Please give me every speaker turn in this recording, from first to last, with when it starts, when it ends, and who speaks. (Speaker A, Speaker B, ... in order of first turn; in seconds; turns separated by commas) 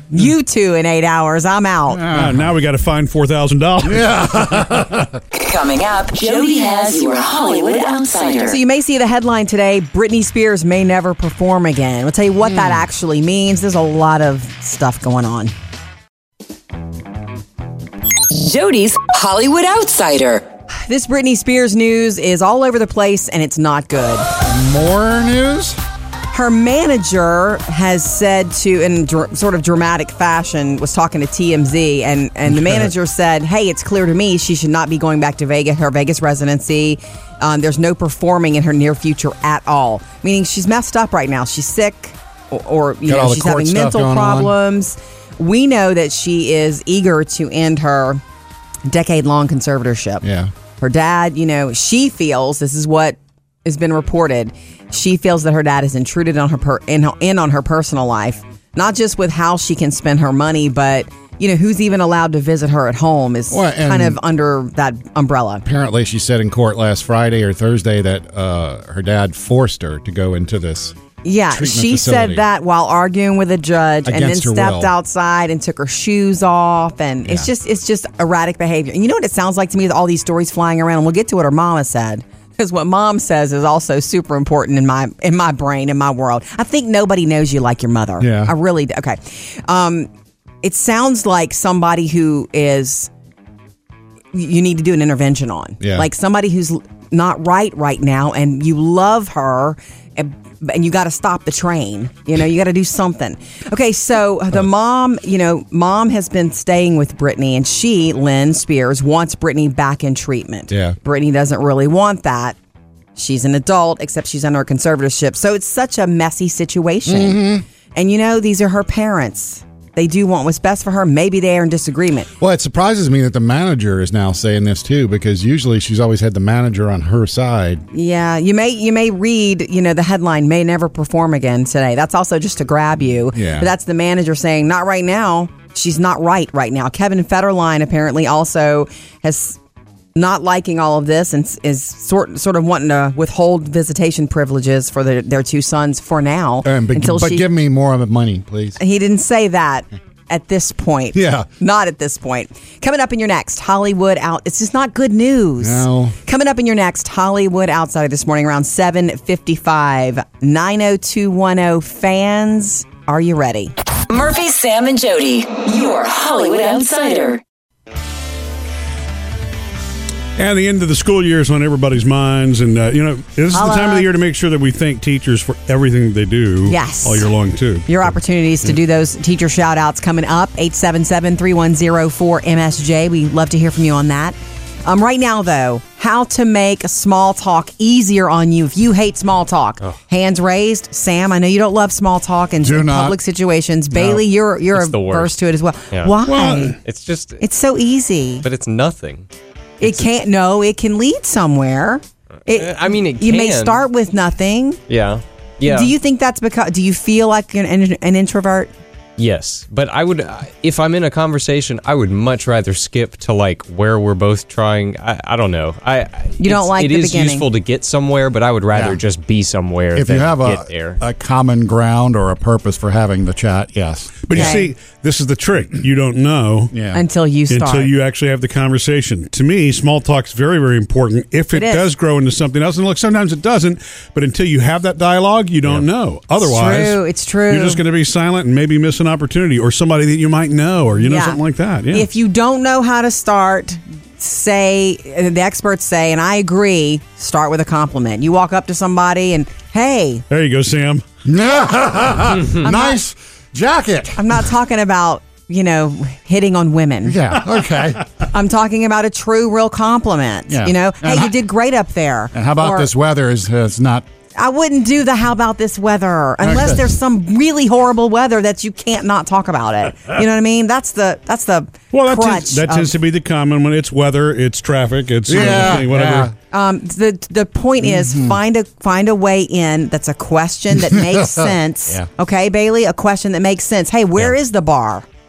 Speaker A: 0.1-2.0, Speaker B: 1.9-2.5, Speaker C: 2.0-4.1, Speaker B: 3.9-5.2, Speaker D: 5.3-8.6, Speaker A: 8.4-15.5, Speaker D: 18.3-20.5, Speaker A: 20.9-24.3, Speaker B: 24.4-25.8, Speaker A: 26.3-48.2, Speaker B: 43.1-44.5, Speaker A: 48.9-50.2, Speaker B: 50.2-50.5, Speaker A: 50.8-65.6, Speaker B: 63.5-64.2, Speaker B: 65.6-71.0, Speaker A: 71.2-90.1, Speaker B: 71.5-72.4, Speaker B: 74.0-74.9, Speaker B: 88.2-88.5, Speaker A: 90.6-93.1, Speaker A: 94.3-112.6, Speaker B: 95.8-96.1, Speaker B: 110.7-111.0, Speaker A: 113.2-122.3, Speaker B: 117.1-117.6, Speaker B: 122.4-127.8, Speaker A: 127.9-139.6, Speaker B: 133.3-133.7, Speaker A: 140.1-147.5, Speaker B: 146.6-148.8, Speaker A: 148.8-163.7, Speaker B: 151.1-151.5, Speaker B: 155.6-156.2, Speaker D: 164.1-167.4, Speaker C: 170.4-178.1, Speaker A: 173.5-174.1, Speaker A: 176.7-177.3, Speaker A: 177.9-196.8, Speaker B: 192.6-193.2, Speaker E: 194.7-195.3, Speaker C: 196.2-196.8, Speaker E: 196.8-197.4, Speaker A: 197.4-198.4, Speaker E: 198.4-199.3, Speaker A: 199.8-204.8, Speaker E: 202.5-203.8, Speaker E: 204.9-205.9, Speaker A: 205.7-208.7, Speaker E: 209.2-221.0, Speaker A: 216.4-217.5, Speaker B: 218.7-219.0, Speaker B: 219.9-224.6, Speaker C: 224.2-226.7, Speaker A: 224.3-224.7, Speaker B: 226.7-227.0, Speaker A: 226.9-227.9, Speaker C: 227.5-242.1, Speaker A: 231.5-231.9, Speaker A: 236.4-237.8, Speaker A: 241.0-250.2, Speaker C: 250.3-251.0, Speaker B: 251.2-254.2, Speaker A: 252.6-253.0, Speaker A: 254.2-257.2, Speaker B: 257.1-258.1, Speaker A: 258.3-262.9, Speaker B: 260.5-261.3, Speaker B: 262.3-264.1, Speaker A: 264.4-272.9, Speaker B: 266.4-266.9, Speaker C: 271.9-276.3, Speaker B: 275.3-276.3, Speaker A: 275.4-275.7, Speaker A: 276.5-285.1, Speaker B: 277.8-278.4, Speaker B: 280.9-282.1